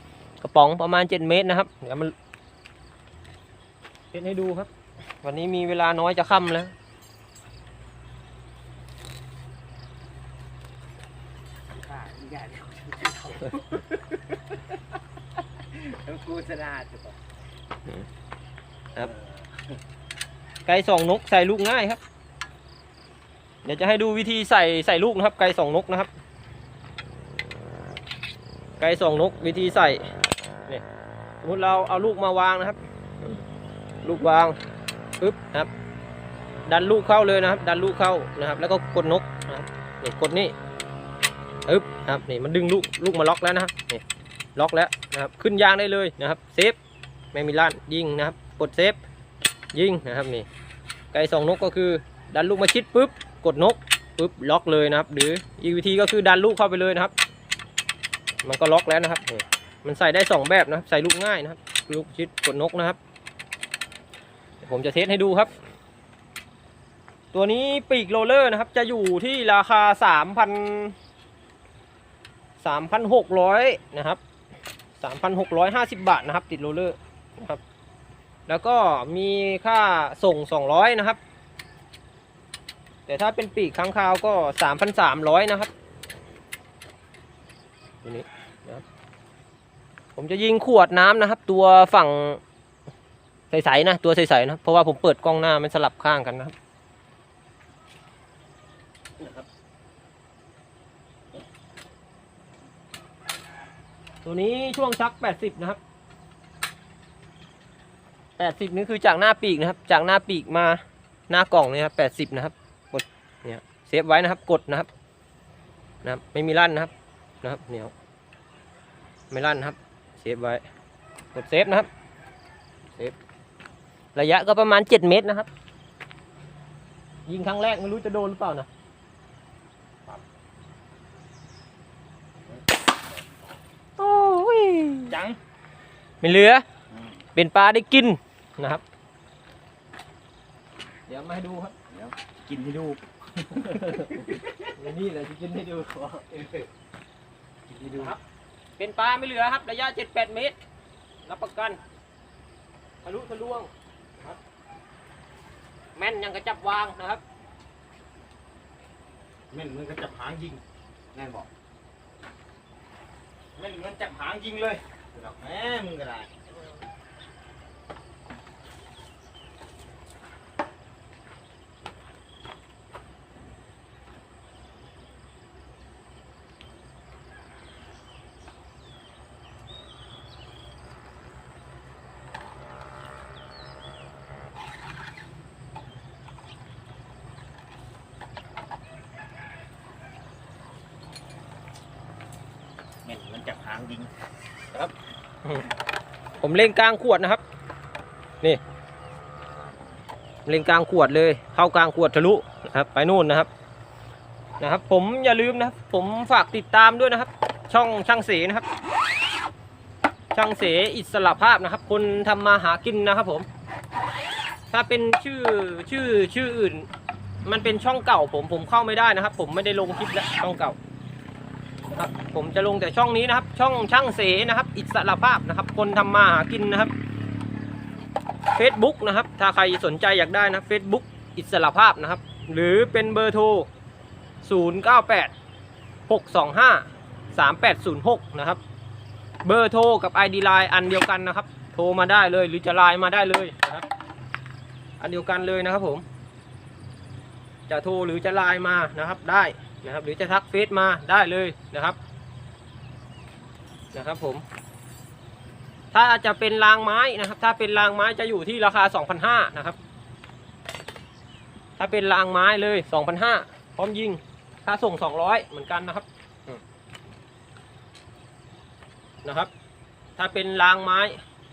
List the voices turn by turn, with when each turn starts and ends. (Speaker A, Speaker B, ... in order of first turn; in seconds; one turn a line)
Speaker A: 0.4-2.1
Speaker A: 4.1-4.7
Speaker A: 5.2-6.7
Speaker B: 11.8-14.2
Speaker B: 15.7-17.1
Speaker A: 20.6-22.0
Speaker A: 23.6-26.1
Speaker A: 28.8-30.1
Speaker A: 31.4-33.4
Speaker A: 34.0-34.6
Speaker A: 35.2-35.7
Speaker A: 36.6-40.5
Speaker A: 41.6-44.0
Speaker A: 44.5-46.8
Speaker A: 47.3-49.0
Speaker A: 49.7-50.5
Speaker A: 51.1-57.1
Speaker A: 58.4-63.0
Speaker A: 64.6-65.5
Speaker A: 67.3-71.0
Speaker A: 72.6-74.2
Speaker A: 75.0-77.6
Speaker A: 78.5-81.2
Speaker A: 83.1-85.7
Speaker A: 88.0-88.8
Speaker A: 90.2-92.4
Speaker A: 93.5-96.5
Speaker A: 99.2-99.4
Speaker A: 104.2-105.8
Speaker A: 108.4-114.9
Speaker A: 116.0-116.9
Speaker A: 117.4-117.9
Speaker A: 119.3-120.6
Speaker A: 121.3-121.9
Speaker A: 124.1-125.5
Speaker A: 127.3-128.7
Speaker A: 134.0-135.2
Speaker B: 135.1-135.4
Speaker A: 136.2-136.6
Speaker A: 137.3-138.8
Speaker A: 141.1-141.8
Speaker B: 141.9-144.2
Speaker A: 143.5-146.6
Speaker B: 147.7-148.1
Speaker A: 147.9-148.2
Speaker A: 148.8-150.6
Speaker A: 151.2-151.8
Speaker A: 153.0-154.4
Speaker A: 155.9-157.2
Speaker B: 159.5-160.6
Speaker B: 161.1-161.5
Speaker B: 163.6-166.4
Speaker B: 193.0-194.1
Speaker A: 196.4-197.4
Speaker A: 200.4-203.5
Speaker A: 204.6-208.7
Speaker A: 210.3-213.5
Speaker A: 214.7-216.9
Speaker A: 217.4-220.8
Speaker A: 221.9-226.9
Speaker A: 228.5-233.7
Speaker A: 234.4-235.3
Speaker A: 236.1-238.6
Speaker A: 239.4-243.8
Speaker A: 245.0-246.0
Speaker A: 247.7-252.0
Speaker A: 253.9-254.4
Speaker A: 255.9-259.8
Speaker A: 261.8-266.6
Speaker A: 269.2-269.5
Speaker A: 270.2-271.2